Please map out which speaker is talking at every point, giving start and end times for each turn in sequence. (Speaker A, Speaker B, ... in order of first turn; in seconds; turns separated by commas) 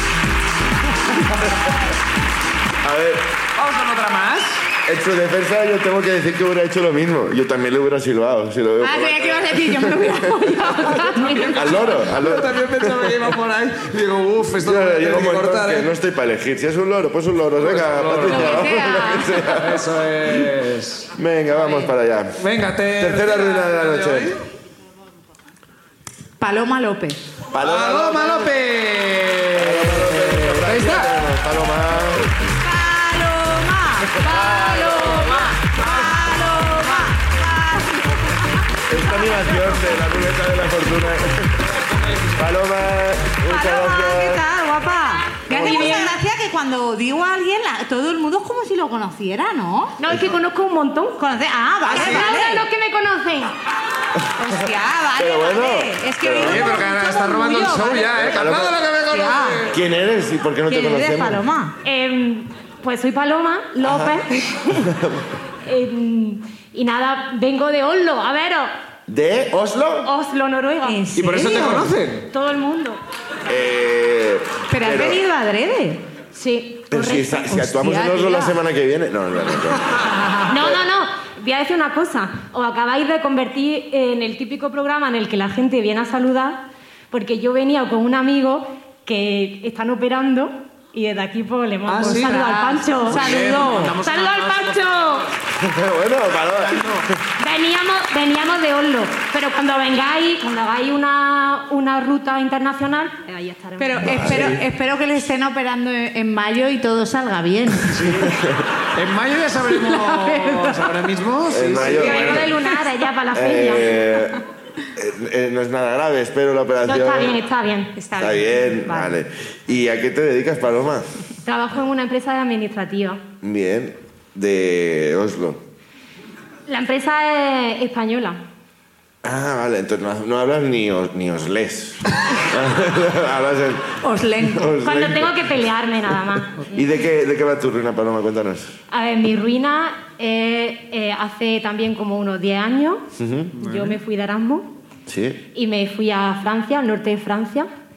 Speaker A: 2.8-3.3, Speaker B: 3.5-4.7, Speaker A: 4.8-10.4, Speaker C: 8.8-11.5, Speaker B: 11.0-15.9, Speaker D: 11.2-11.5, Speaker A: 11.5-13.3, Speaker A: 14.6-19.9, Speaker B: 17.6-18.7, Speaker C: 18.3-19.4, Speaker B: 19.5-21.1, Speaker A: 21.1-22.4, Speaker B: 22.4-24.4, Speaker A: 22.9-24.3, Speaker C: 26.4-27.2, Speaker A: 27.5-28.5, Speaker B: 27.6-31.1, Speaker A: 29.5-32.3, Speaker C: 32.6-38.1, Speaker A: 34.0-35.5, Speaker A: 38.9-41.7, Speaker B: 41.9-42.3, Speaker A: 42.4-44.4, Speaker C: 43.5-50.0, Speaker D: 45.5-46.2, Speaker A: 45.5-46.0, Speaker D: 50.0-51.2, Speaker C: 51.2-52.6, Speaker D: 51.9-53.5, Speaker B: 51.9-52.2, Speaker C: 54.4-58.1, Speaker A: 54.4-56.8, Speaker B: 56.4-59.8, Speaker A: 58.1-58.8, Speaker C: 59.1-59.6, Speaker A: 59.7-61.4, Speaker C: 60.7-61.8, Speaker D: 61.8-64.9, Speaker A: 63.8-64.2, Speaker A: 64.7-65.2, Speaker D: 65.6-68.7, Speaker A: 69.1-70.1, Speaker D: 70.0-73.0, Speaker C: 70.8-71.9, Speaker B: 71.2-72.3, Speaker A: 73.5-75.2, Speaker C: 74.7-76.0, Speaker D: 76.3-77.6, Speaker A: 76.9-79.8, Speaker C: 77.5-78.5, Speaker C: 80.1-80.5, Speaker D: 80.5-95.3, Speaker B: 91.8-92.4, Speaker C: 92.0-93.9, Speaker B: 93.0-95.3, Speaker A: 95.6-97.1, Speaker B: 96.6-97.0, Speaker D: 97.4-104.5, Speaker C: 103.8-108.1, Speaker A: 104.0-104.6, Speaker B: 107.9-108.3, Speaker A: 108.1-108.7, Speaker B: 108.9-112.5, Speaker C: 109.8-110.9, Speaker A: 111.5-112.4, Speaker D: 111.8-114.0, Speaker A: 113.3-114.4, Speaker A: 114.9-117.4, Speaker D: 116.8-117.9, Speaker C: 117.9-119.1, Speaker A: 118.2-121.1, Speaker D: 121.4-123.2, Speaker A: 123.4-125.6, Speaker D: 126.7-128.4, Speaker A: 129.2-135.5, Speaker C: 134.0-134.7, Speaker D: 134.8-136.8, Speaker A: 136.7-138.7, Speaker D: 138.9-143.0, Speaker A: 143.2-143.5, Speaker D: 143.6-144.7, Speaker B: 143.6-144.0, Speaker A: 145.1-145.4, Speaker D: 145.5-147.7